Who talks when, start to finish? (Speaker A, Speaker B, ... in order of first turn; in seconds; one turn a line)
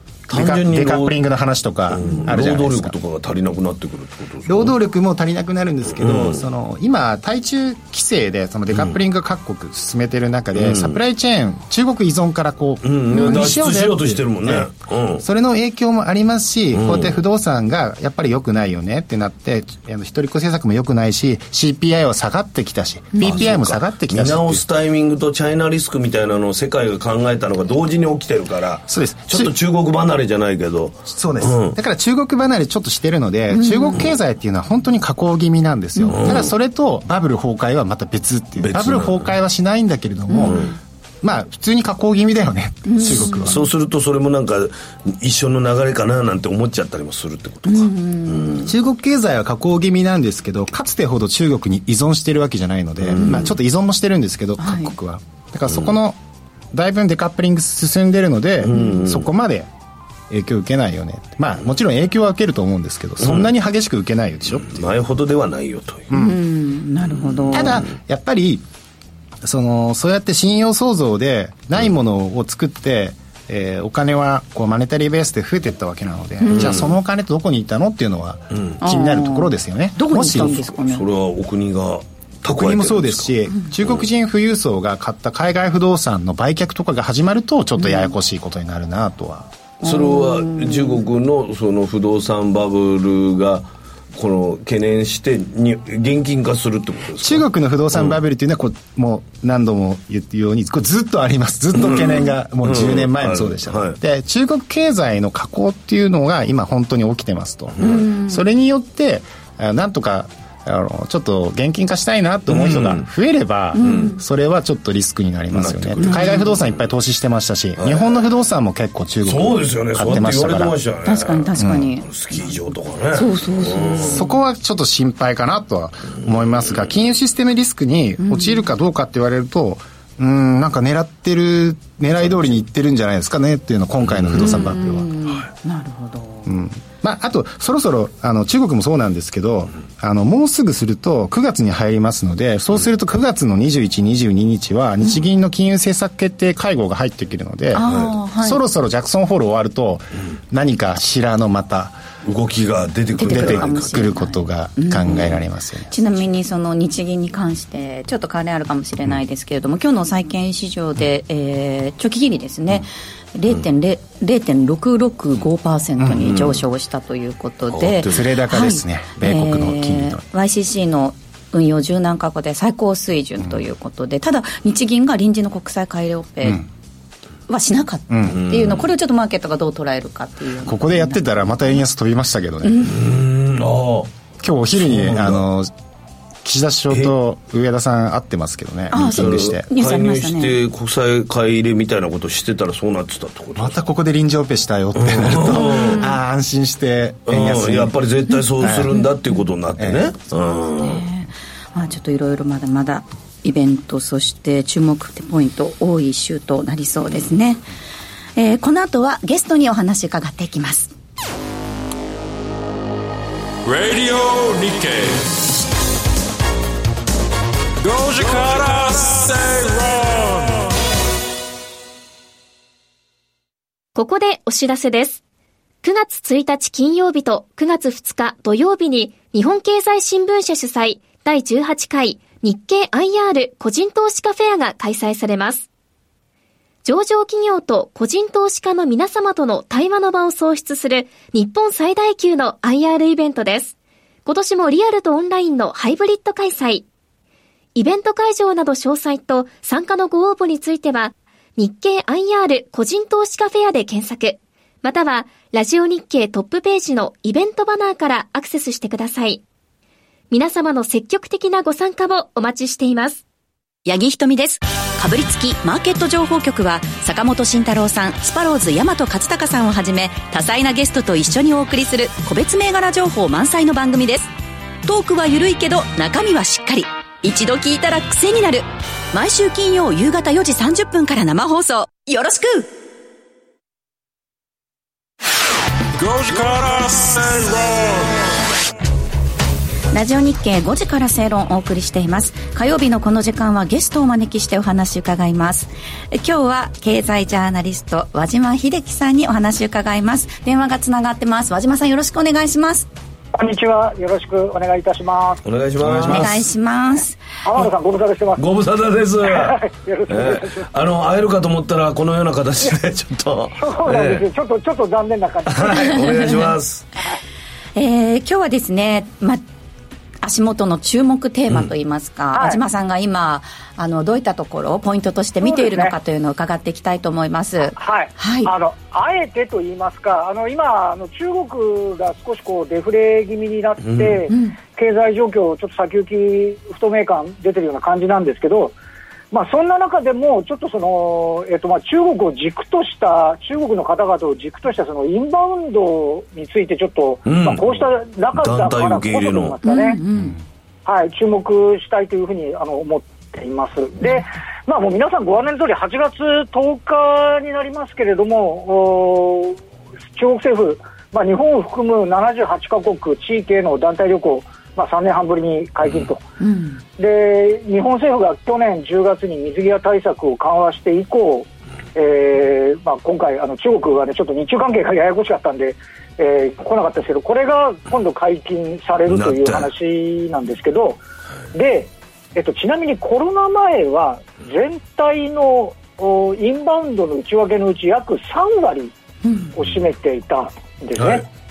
Speaker A: 0.3-2.9
Speaker B: 0.3-1.1
Speaker B: 1.9-4.7
Speaker A: 4.5-14.7
Speaker B: 5.9-6.4
Speaker B: 10.5-11.0
Speaker B: 12.8-15.2
Speaker C: 13.1-13.5
Speaker A: 15.2-24.6
Speaker B: 16.7-17.2
Speaker C: 23.1-23.5
Speaker B: 23.2-31.8
Speaker A: 28.9-29.5
Speaker A: 31.1-40.7
Speaker C: 33.5-34.0
Speaker C: 36.0-36.3
Speaker B: 36.1-36.5
Speaker B: 38.6-39.3
Speaker C: 40.3-40.6
Speaker B: 40.4-40.7
Speaker A: 41.2-43.6
Speaker C: 42.9-43.7
Speaker B: 43.1-48.7
Speaker C: 47.6-48.7
Speaker A: 48.6-56.2
Speaker B: 53.0-53.5
Speaker C: 53.2-53.5
Speaker C: 54.6-55.0
Speaker A: 56.7-59.7
Speaker B: 58.6-59.3
Speaker C: 58.7-59.0
Speaker A: 60.3-64.9
Speaker B: 63.2-63.5
Speaker B: 64.6-66.1
Speaker A: 66.1-66.4
Speaker C: 66.1-67.8
Speaker B: 67.2-67.8
Speaker A: 67.5-68.6
Speaker A: 69.4-80.7
Speaker C: 76.4-76.8
Speaker B: 76.5-76.9
Speaker B: 78.5-78.8
Speaker C: 78.8-81.0
Speaker B: 80.3-84.1
Speaker A: 82.5-89.5
Speaker C: 87.8-88.1
Speaker C: 89.8-91.0
Speaker B: 89.8-98.1
Speaker A: 97.2-120.8
Speaker B: 101.7-104.0
Speaker B: 107.8-108.1
Speaker C: 107.8-108.4
Speaker B: 112.5-113.1
Speaker C: 113.7-114.2
Speaker B: 113.8-114.1
Speaker B: 115.5-116.8
Speaker C: 116.0-116.5
Speaker B: 117.8-118.2
Speaker B: 119.2-124.2
Speaker C: 121.0-122.5
Speaker A: 121.6-121.9
Speaker C: 123.1-124.3
Speaker A: 124.0-135.1
Speaker C: 128.2-128.7
Speaker B: 134.1-134.6
Speaker C: 134.4-136.5
Speaker A: 136.4-152.0
Speaker C: 147.7-148.6
Speaker B: 147.8-148.1
Speaker B: 152.2-154.1
Speaker C: 153.2-176.6
Speaker A: 153.2-156.3
Speaker A: 166.0-166.3
Speaker B: 166.2-166.6
Speaker B: 167.7-168.3
Speaker A: 168.0-170.2
Speaker C: 177.5-181.2
Speaker A: 178.1-178.4
Speaker B: 178.3-178.8
Speaker A: 180.6-182.9
Speaker C: 182.6-182.9
Speaker B: 182.8-184.1
Speaker A: 184.4-185.7
Speaker B: 184.8-185.4
Speaker A: 186.4-189.7
Speaker C: 188.9-190.6
Speaker B: 189.0-193.8
Speaker A: 193.6-197.9
Speaker B: 194.9-196.0
Speaker C: 195.5-196.1
Speaker B: 197.3-201.0
Speaker A: 198.6-198.9
Speaker A: 199.8-200.1
Speaker C: 200.8-207.7
Speaker C: 208.3-210.9
Speaker D: 213.6-215.4
Speaker D: 217.8-220.7
Speaker E: 223.9-225.2
Speaker E: 225.8-235.7
Speaker E: 236.8-246.8
Speaker E: 247.7-259.4
Speaker E: 260.3-263.2
Speaker F: 263.8-274.3
Speaker F: 274.8-282.7
Speaker D: 285.9-288.3
Speaker C: 289.9-302.9
Speaker G: 303.3-305.4
Speaker B: 305.4-306.4
Speaker A: 305.8-306.2
Speaker C: 306.1-307.2
Speaker G: 307.4-308.4
Speaker B: 308.4-314.3
Speaker G: 309.2-310.7
Speaker G: 313.6-316.2
Speaker B: 315.4-316.9
Speaker C: 315.8-316.5
Speaker C: 317.8-319.4
Speaker C: 320.2-328.5
Speaker G: 322.3-322.6
Speaker G: 325.4-325.9
Speaker G: 327.7-338.8
Speaker B: 333.8-334.3
Speaker C: 334.3-334.6
Speaker G: 339.3-350.0
Speaker B: 347.2-347.8
Speaker B: 348.3-349.6
Speaker C: 349.6-350.4
Speaker A: 350.1-350.4
Speaker G: 350.8-359.6
Speaker G: 360.1-366.2
Speaker C: 366.4-366.8
Speaker G: 367.0-381.0
Speaker B: 379.1-379.7
Speaker G: 381.5-388.9
Speaker C: 389.2-389.5
Speaker G: 389.5-391.2
Speaker B: 390.9-391.2